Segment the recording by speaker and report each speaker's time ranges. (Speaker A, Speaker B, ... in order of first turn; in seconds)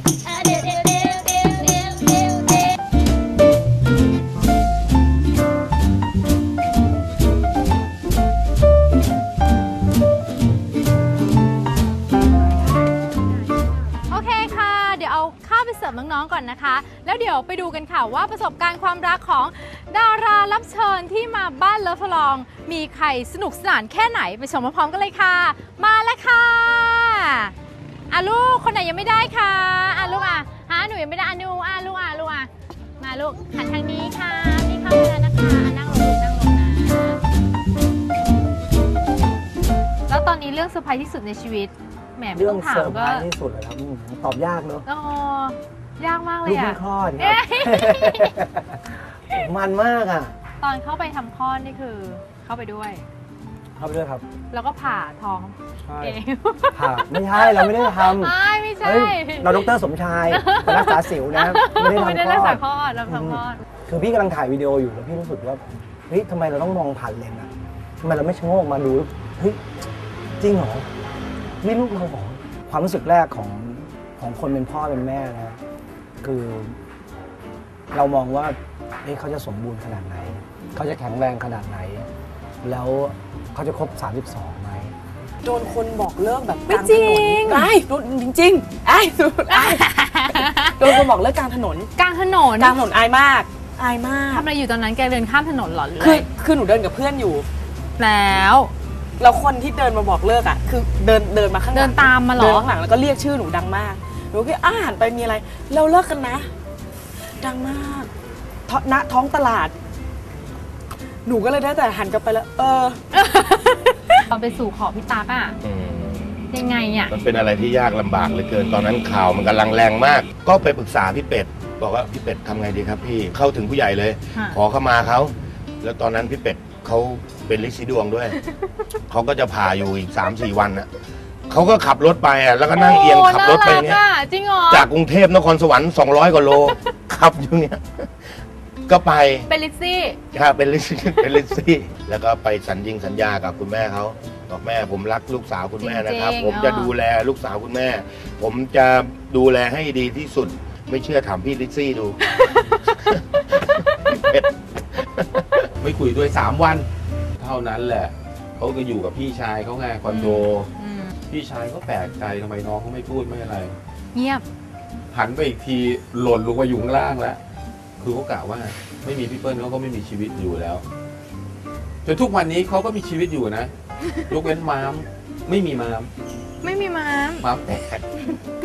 Speaker A: 14.1-27.5, 28.1-32.5, 33.0-37.2, 40.1-43.3, 44.9-48.4, 50.6-53.0, 54.5-59.7, 60.3-63.6, 86.7-87.7, 89.5-90.9, 92.0-92.8, 94.3-96.2, 98.0-98.7, 101.7-102.7, 113.2-115.6, 116.5-117.1, 132.8-134.9, 139.5-140.2, 145.8-146.9, 160.1-161.1, 164.1-164.4, 176.6-177.5
Speaker B: 42.3-44.9, 46.5-50.3, 53.8-54.2, 55.9-56.2, 56.7-67.5, 68.0-69.6, 70.4-70.9, 71.6-75.6, 76.2-76.8, 77.9-82.1, 82.6-84.9
Speaker C: 85.4-91.9, 92.6-94.5, 96.0-97.5, 99.2-106.5, 107.4-108.1, 108.7-109.7, 111.2-113.0
Speaker D: 115.6-116.4, 117.1-128.3, 129.1-130.9, 131.5-134.1, 134.7-138.3, 138.9-139.5, 140.3-152.2, 155.2-155.7
Speaker E: 155.8-156.8, 157.4-160.7, 161.3-163.7, 165.1-167.4, 168.0-170.8, 172.1-173.7, 174.3-176.1, 177.4-178.0